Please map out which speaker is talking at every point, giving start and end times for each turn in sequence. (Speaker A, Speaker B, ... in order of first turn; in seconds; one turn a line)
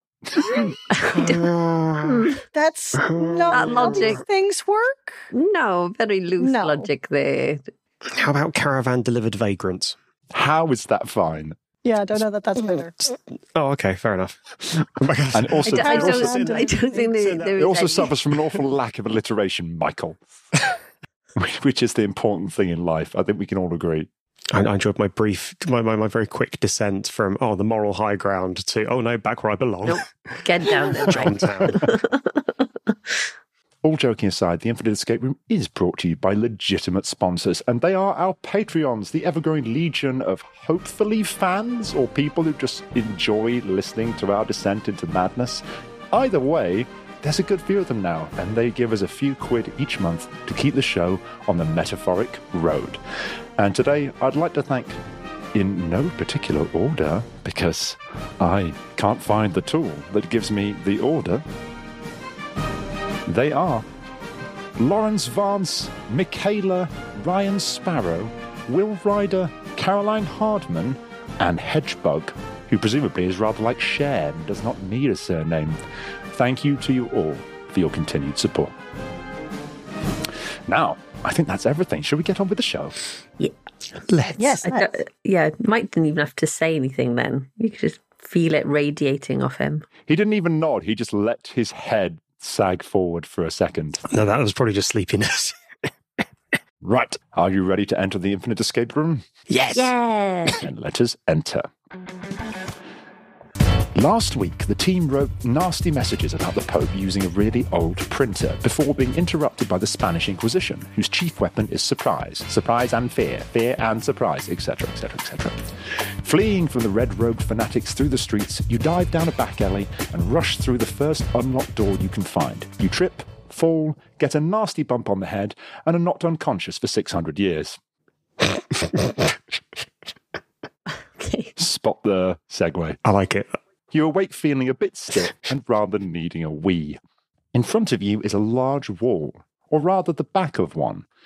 Speaker A: 0.3-0.7
Speaker B: 1.0-1.4
Speaker C: 1.0-2.4
Speaker B: 2.0-2.4
Speaker D: 2.5-5.3
Speaker C: 3.0-4.2
Speaker B: 3.5-4.2
Speaker B: 5.3-7.7
Speaker D: 6.4-6.9
Speaker C: 8.1-10.0
Speaker A: 10.3-11.6
Speaker D: 11.8-13.1
Speaker C: 13.6-17.5
Speaker A: 15.3-16.3
Speaker B: 15.7-18.1
Speaker D: 15.8-17.1
Speaker A: 17.6-20.2
Speaker A: 21.4-24.1
Speaker C: 24.5-31.9
Speaker B: 29.9-32.3
Speaker A: 33.8-53.0
Speaker A: 53.6-55.0
Speaker A: 55.5-61.4
Speaker A: 63.3-63.9
Speaker A: 64.8-75.8
Speaker A: 76.3-78.8
Speaker A: 80.7-83.0
Speaker C: 84.1-84.6
Speaker D: 84.4-84.9
Speaker B: 84.6-89.9
Speaker A: 90.1-94.0
Speaker C: 94.1-95.6
Speaker A: 96.8-99.2
Speaker C: 99.5-99.9
Speaker B: 99.7-100.6
Speaker A: 100.6-101.7
Speaker A: 104.0-115.6
Speaker A: 116.2-127.8
Speaker B: 131.2-131.5
Speaker A: 131.6-133.0
Speaker C: 133.0-133.5
Speaker A: 133.9-137.0
Speaker A: 137.5-141.1